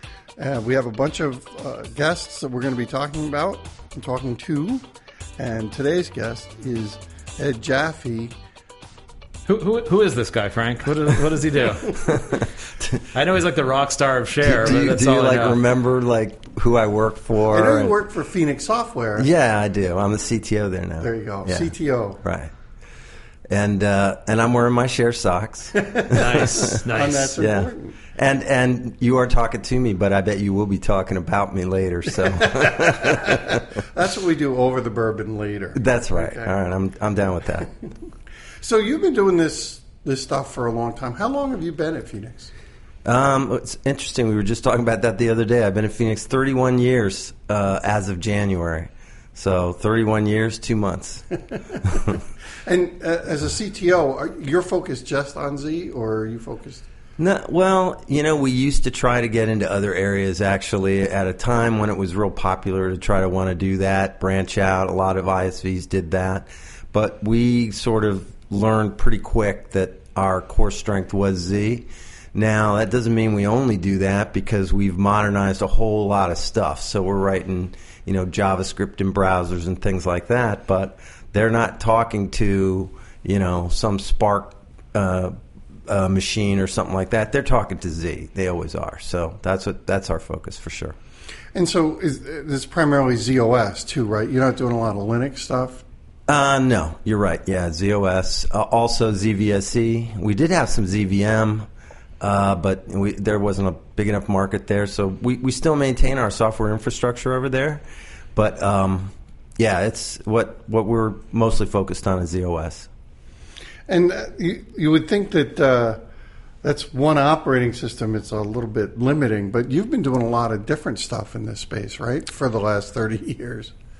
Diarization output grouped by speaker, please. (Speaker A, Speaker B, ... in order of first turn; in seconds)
Speaker A: 0.4-4.8, 5.4-8.3, 17.5-19.3, 21.0-22.2, 25.8-28.0, 32.8-36.5, 38.6-42.5, 52.6-56.8, 91.5-95.8, 113.9-116.0, 116.6-123.7
Speaker B: 9.5-12.2, 13.1-15.6, 26.1-27.4
Speaker C: 11.8-13.0, 14.4-18.0, 19.1-22.5, 23.5-26.8, 27.4-33.6, 35.7-37.7, 43.0-51.3, 51.8-52.2, 57.2-85.3, 85.9-91.0, 96.3-101.7, 102.2-107.8, 108.3-112.9